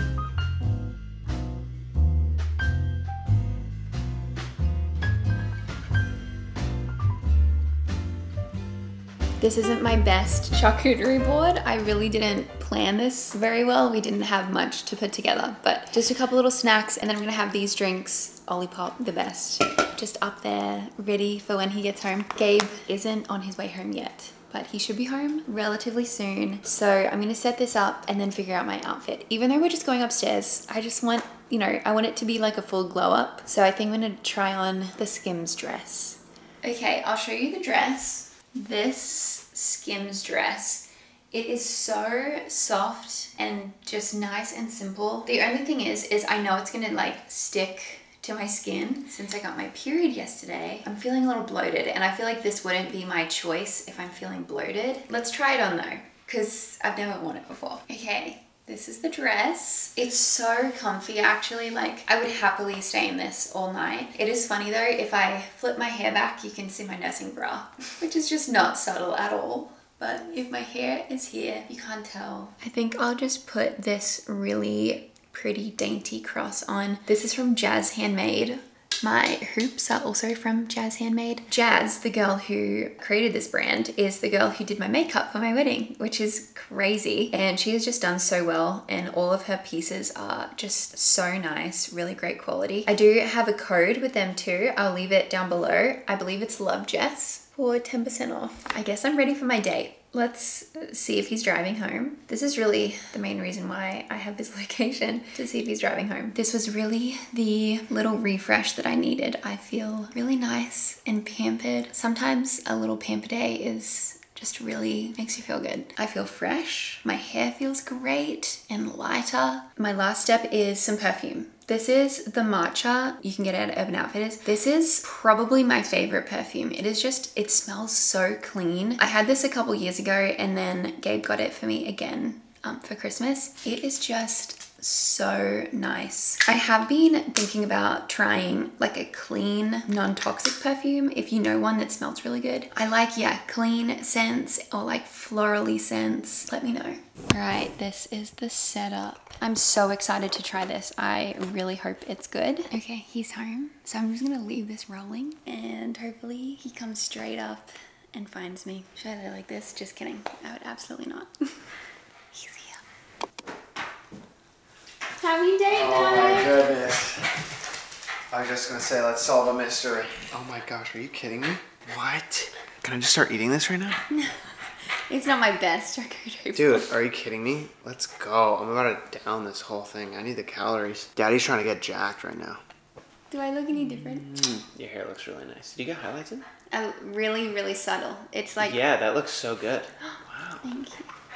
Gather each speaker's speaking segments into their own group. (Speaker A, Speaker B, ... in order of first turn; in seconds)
Speaker A: 9.4-161.7, 162.3-162.8, 165.1-166.7, 174.1-174.4, 175.1-176.9, 183.3-184.5, 186.7-188.8, 190.0-191.1
Speaker B: 165.7-167.3, 168.3-174.0, 176.5-182.6
Speaker C: 184.4-186.4, 188.6-190.6